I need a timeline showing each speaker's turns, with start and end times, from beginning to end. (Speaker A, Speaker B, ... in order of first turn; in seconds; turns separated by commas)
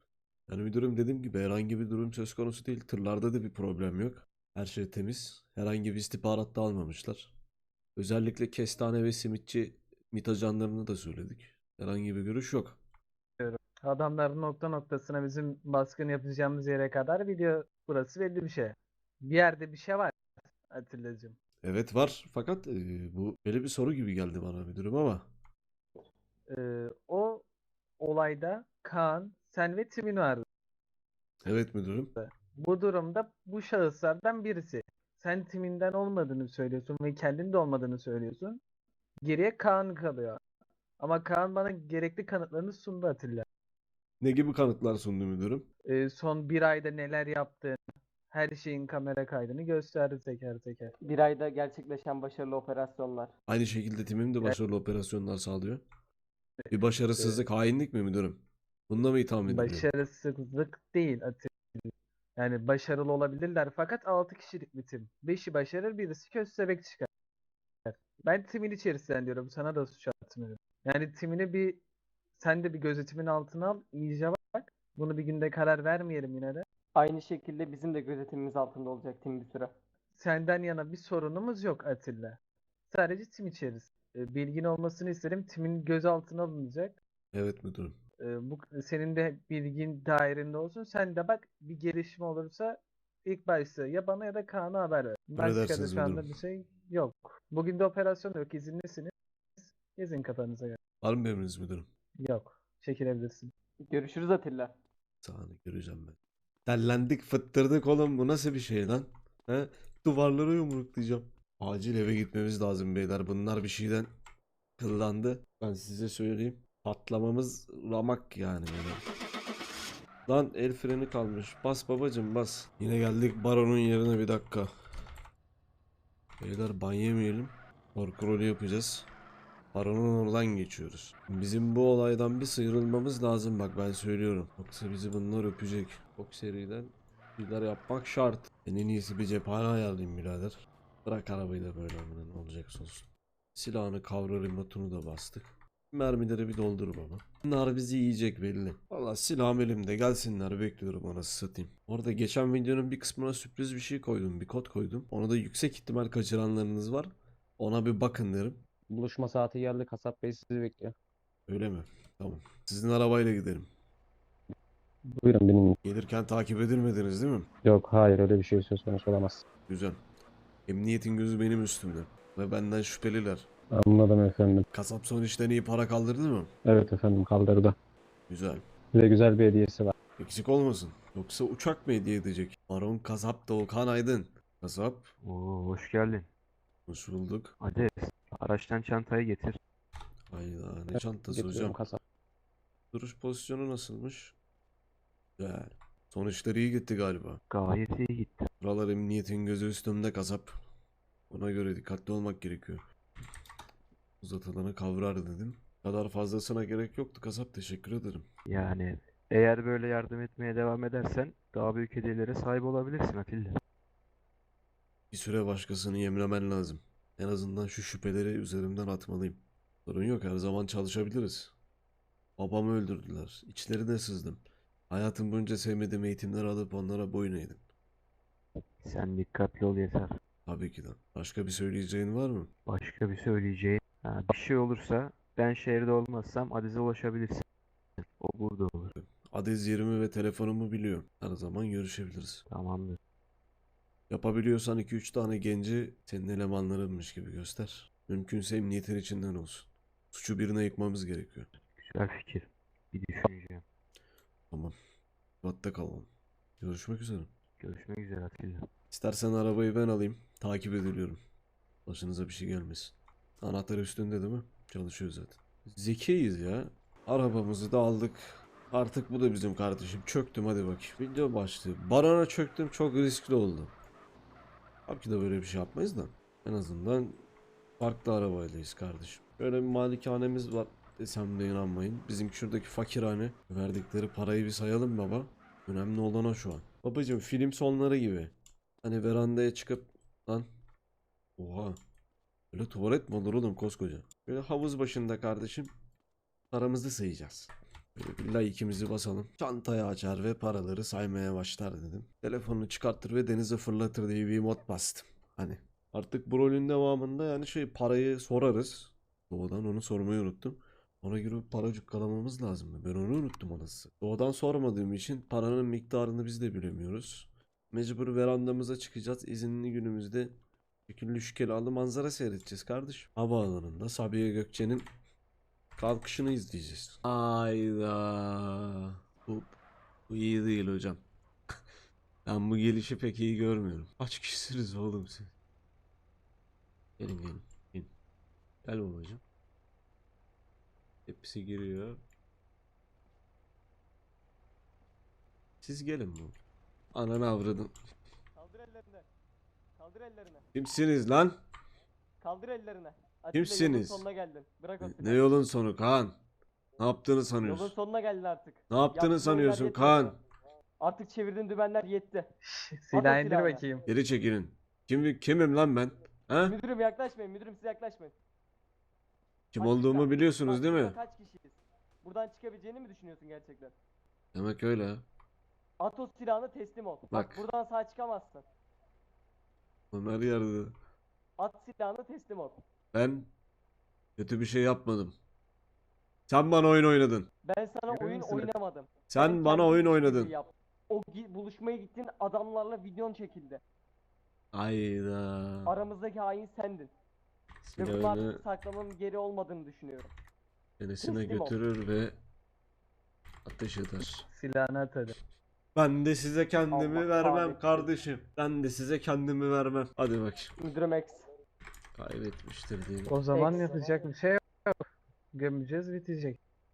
Speaker A: 0.5-7.3, Speaker A: 8.0-12.8, Speaker B: 13.4-20.2, Speaker B: 20.7-21.4, Speaker A: 21.6-25.3, Speaker B: 26.5-27.4, Speaker B: 28.0-30.4, Speaker A: 31.5-32.1, Speaker B: 32.2-38.6, Speaker B: 39.2-40.4, Speaker B: 41.0-43.5, Speaker A: 44.2-45.7, Speaker B: 45.9-47.8, Speaker B: 48.3-50.9, Speaker C: 51.0-53.3, Speaker A: 53.5-55.8, Speaker B: 56.6-57.4, Speaker A: 56.7-59.9, Speaker B: 59.5-67.1, Speaker B: 67.8-71.8, Speaker B: 72.4-76.7, Speaker C: 77.0-79.7, Speaker B: 80.2-82.4, Speaker B: 82.9-87.0, Speaker A: 87.3-88.0, Speaker B: 88.2-100.8, Speaker A: 95.4-96.3, Speaker A: 101.0-101.9, Speaker B: 102.2-103.5, Speaker C: 103.8-104.7, Speaker A: 105.2-114.1, Speaker A: 114.8-119.0, Speaker A: 120.3-124.7, Speaker A: 126.4-129.1, Speaker A: 129.7-158.6, Speaker D: 158.9-160.9, Speaker A: 161.5-163.7, Speaker D: 165.1-165.8, Speaker A: 165.8-167.5, Speaker D: 167.6-169.4, Speaker A: 169.7-170.0, Speaker A: 170.7-173.5, Speaker D: 173.7-174.7, Speaker A: 174.7-176.5, Speaker D: 176.7-177.8, Speaker A: 178.3-178.6, Speaker D: 178.9-179.9, Speaker A: 180.2-185.1, Speaker E: 185.2-186.3, Speaker A: 186.9-187.6, Speaker E: 187.6-189.6, Speaker A: 190.3-191.8, Speaker D: 190.9-192.0, Speaker A: 192.9-194.3, Speaker A: 195.4-197.4, Speaker E: 197.5-198.5, Speaker A: 198.6-200.6, Speaker A: 201.3-202.8, Speaker A: 204.2-208.2, Speaker E: 208.5-213.5, Speaker A: 215.1-221.5, Speaker A: 222.4-227.6, Speaker E: 228.8-230.1, Speaker A: 230.5-232.5, Speaker E: 232.7-237.4, Speaker E: 238.0-238.9, Speaker A: 239.0-242.4, Speaker E: 242.5-243.0, Speaker A: 244.1-251.5, Speaker E: 251.7-253.6, Speaker A: 255.4-256.1, Speaker A: 256.6-257.3, Speaker E: 257.6-258.7, Speaker A: 258.9-261.2, Speaker A: 261.9-273.7, Speaker A: 274.9-277.2, Speaker A: 277.8-290.5, Speaker A: 291.4-291.8, Speaker A: 292.5-295.7, Speaker A: 296.5-320.3, Speaker A: 320.9-324.9, Speaker A: 325.8-329.6, Speaker A: 330.1-331.0, Speaker A: 332.3-335.3, Speaker A: 337.0-337.9, Speaker A: 338.6-339.2, Speaker A: 341.1-342.0, Speaker A: 345.6-346.4, Speaker A: 346.9-347.7, Speaker C: 348.4-349.1, Speaker C: 349.8-350.4, Speaker A: 350.5-351.4, Speaker C: 352.2-355.4, Speaker A: 353.3-354.1, Speaker A: 354.8-356.1, Speaker A: 356.8-357.7, Speaker C: 357.4-360.1, Speaker A: 358.7-360.2, Speaker C: 360.8-362.3, Speaker B: 362.4-363.9, Speaker C: 362.9-363.6, Speaker A: 363.9-366.6, Speaker C: 366.4-368.1, Speaker A: 369.5-371.0, Speaker C: 369.6-373.8, Speaker A: 374.3-375.0, Speaker C: 375.8-378.4, Speaker A: 377.1-377.4, Speaker A: 379.9-380.7, Speaker C: 381.4-382.6, Speaker A: 382.9-383.3, Speaker A: 384.2-385.1, Speaker A: 386.3-387.3, Speaker C: 387.4-393.6, Speaker B: 387.9-388.5, Speaker A: 389.1-390.3, Speaker A: 394.5-395.7, Speaker C: 395.7-396.9, Speaker A: 397.6-398.4, Speaker C: 397.8-400.1, Speaker A: 400.8-402.2, Speaker C: 401.0-401.6, Speaker A: 403.4-404.3, Speaker B: 404.3-405.2, Speaker A: 405.8-410.6, Speaker C: 406.7-407.9, Speaker C: 410.6-411.3, Speaker A: 411.9-413.1, Speaker B: 413.1-414.8, Speaker C: 413.3-414.1, Speaker B: 415.3-416.4